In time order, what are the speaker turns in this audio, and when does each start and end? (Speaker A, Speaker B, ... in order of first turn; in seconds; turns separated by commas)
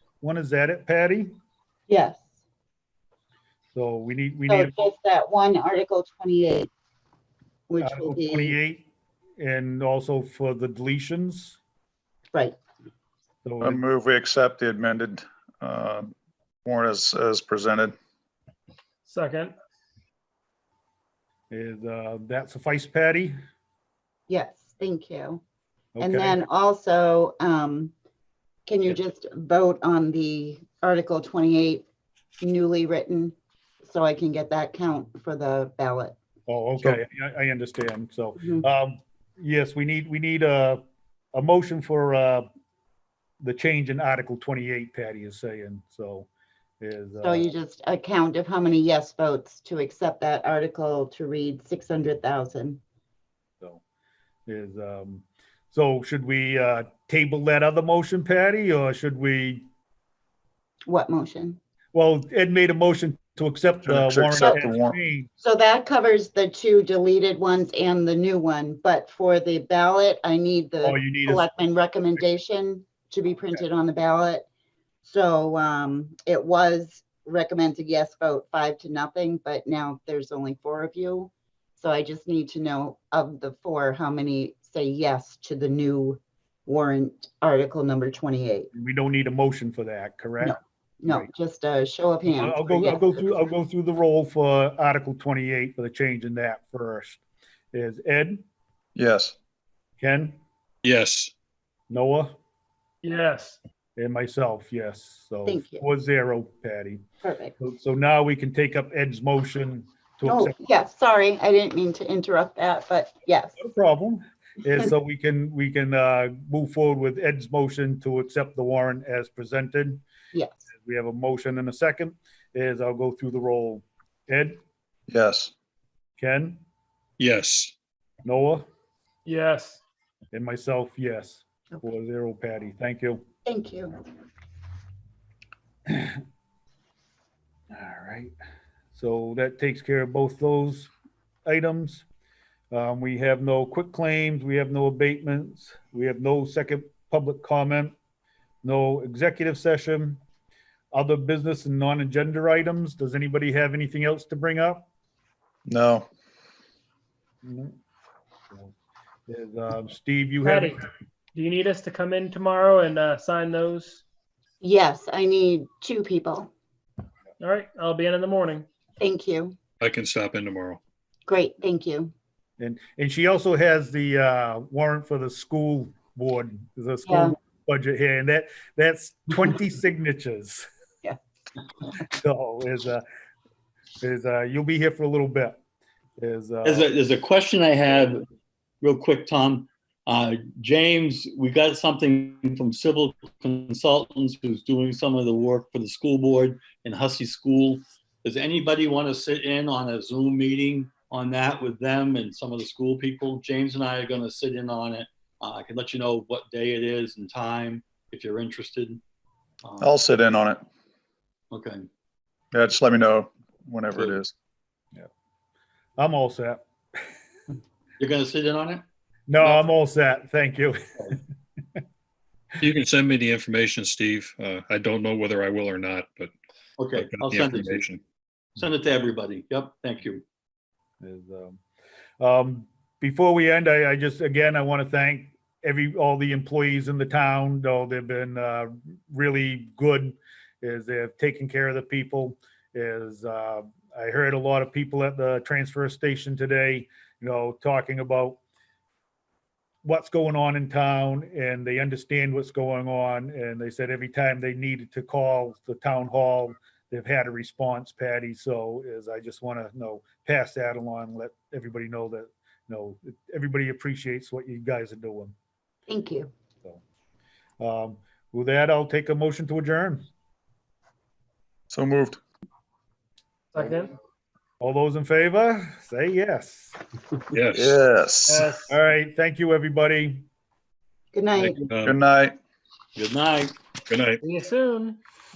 Speaker A: 0.2-1.3, Speaker B: 1.9-2.2, Speaker A: 3.7-4.8, Speaker B: 4.5-6.7, Speaker B: 7.7-8.6, Speaker A: 7.8-8.9, Speaker A: 9.4-11.6, Speaker A: 13.4-13.8, Speaker C: 13.6-16.1, Speaker C: 16.6-17.9, Speaker D: 19.0-19.5, Speaker A: 21.5-23.3, Speaker B: 24.3-25.4, Speaker A: 25.9-26.4, Speaker B: 26.0-27.9, Speaker B: 28.6-31.8, Speaker B: 32.4-36.1, Speaker A: 36.5-40.8, Speaker B: 38.4-38.6, Speaker A: 41.3-42.5, Speaker A: 43.4-46.3, Speaker A: 46.8-47.5, Speaker B: 47.2-52.8, Speaker A: 54.5-59.6, Speaker B: 60.9-61.6, Speaker A: 61.9-65.3, Speaker C: 63.8-65.0, Speaker B: 64.4-64.6, Speaker B: 65.4-74.4, Speaker A: 70.8-71.5, Speaker B: 75.0-88.7, Speaker A: 88.7-90.5, Speaker B: 90.4-93.4, Speaker A: 92.2-97.2, Speaker A: 97.7-98.4, Speaker C: 99.0-99.3, Speaker A: 100.0-100.4, Speaker E: 100.8-101.3, Speaker A: 101.9-102.3, Speaker D: 103.0-103.6, Speaker A: 104.0-107.0, Speaker B: 105.5-105.9, Speaker B: 107.2-107.5, Speaker A: 107.6-110.5, Speaker B: 110.2-113.6, Speaker A: 113.6-120.0, Speaker B: 120.3-120.7, Speaker A: 120.7-124.6, Speaker C: 125.1-125.5, Speaker A: 126.2-126.6, Speaker E: 127.2-127.7, Speaker A: 128.2-128.7, Speaker D: 129.2-129.8, Speaker A: 130.3-133.2, Speaker B: 133.4-133.9, Speaker A: 135.9-136.2, Speaker A: 137.7-138.3, Speaker A: 138.9-140.9, Speaker A: 141.4-142.0, Speaker A: 142.7-147.9, Speaker A: 148.6-150.2, Speaker A: 150.9-154.9, Speaker C: 155.7-156.1, Speaker A: 157.4-157.8, Speaker A: 159.3-160.8, Speaker D: 160.4-160.8, Speaker D: 161.3-164.0, Speaker B: 164.6-166.5, Speaker D: 167.4-168.7, Speaker B: 169.0-169.6, Speaker E: 169.8-170.8, Speaker B: 171.3-172.1, Speaker A: 172.6-180.7, Speaker B: 177.1-177.3, Speaker A: 182.0-183.0, Speaker A: 184.0-185.6, Speaker A: 186.2-186.9, Speaker F: 186.6-188.2, Speaker F: 188.8-209.0, Speaker F: 209.6-209.9, Speaker C: 209.8-210.6, Speaker F: 211.5-211.8, Speaker C: 212.5-214.3, Speaker F: 213.9-214.2, Speaker A: 216.0-216.6, Speaker F: 218.0-218.8, Speaker A: 219.3-220.9, Speaker E: 222.6-226.3, Speaker F: 226.8-227.8, Speaker E: 226.9-228.0, Speaker F: 228.6-230.2, Speaker A: 231.0-231.6, Speaker A: 232.2-248.4, Speaker A: 249.8-265.3, Speaker B: 265.9-266.3, Speaker A: 267.6-270.1, Speaker C: 271.7-272.2, Speaker D: 273.5-273.9, Speaker A: 274.6-276.8, Speaker E: 277.3-277.8, Speaker C: 277.5-278.5, Speaker D: 278.3-278.8, Speaker A: 278.7-280.2, Speaker B: 281.1-281.6, Speaker F: 281.4-281.9, Speaker C: 281.8-282.4, Speaker F: 282.9-283.6, Speaker E: 283.9-284.2, Speaker D: 284.2-285.0